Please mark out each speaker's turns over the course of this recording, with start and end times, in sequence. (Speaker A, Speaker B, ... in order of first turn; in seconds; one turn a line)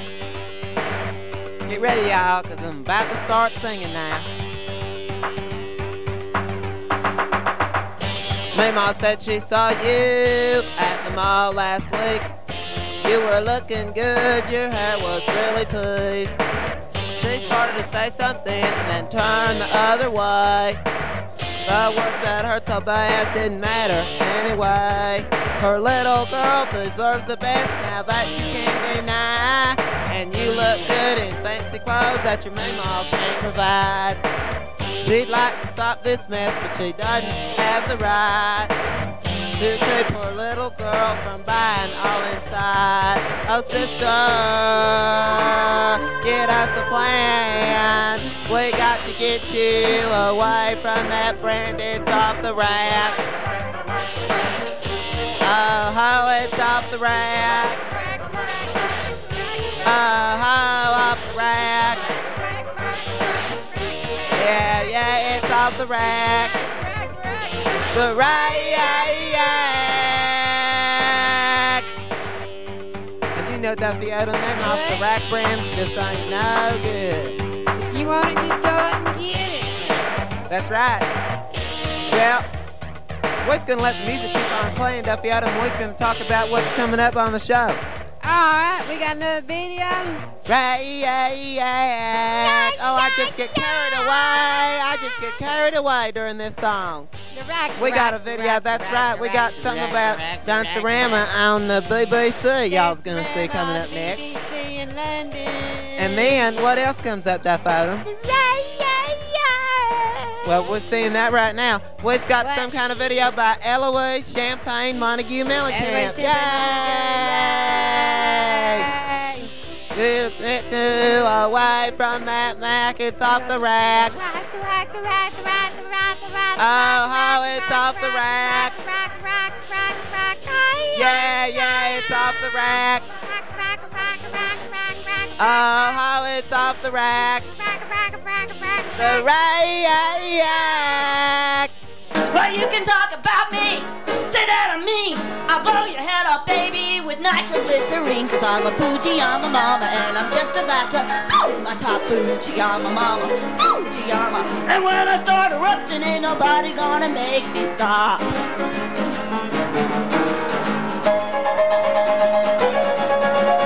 Speaker A: 1.7-4.3
Speaker A: 8.5-12.2
Speaker A: 13.0-16.4
Speaker A: 17.2-20.8
Speaker A: 21.6-34.2
Speaker A: 35.0-38.7
Speaker A: 39.6-53.2
Speaker A: 55.4-57.8
Speaker B: 57.5-69.6
Speaker A: 59.8-62.0
Speaker A: 64.3-66.6
Speaker A: 67.9-71.8
Speaker A: 73.3-77.4
Speaker B: 74.6-75.0
Speaker B: 77.8-79.9
Speaker A: 80.5-81.1
Speaker A: 82.1-82.5
Speaker A: 83.4-87.8
Speaker B: 88.2-90.2
Speaker A: 90.5-97.1
Speaker B: 92.4-95.1
Speaker B: 97.3-101.3
Speaker A: 97.8-104.2
Speaker B: 102.7-106.5
Speaker A: 106.0-108.0
Speaker B: 108.0-110.7
Speaker A: 110.4-118.9
Speaker B: 112.4-112.7
Speaker B: 115.7-119.5
Speaker A: 119.9-124.1
Speaker B: 123.3-136.0
Speaker A: 126.6-128.7
Speaker A: 130.9-133.0
Speaker A: 135.4-137.4
Speaker B: 137.6-139.3
Speaker A: 139.0-141.7
Speaker C: 142.3-158.3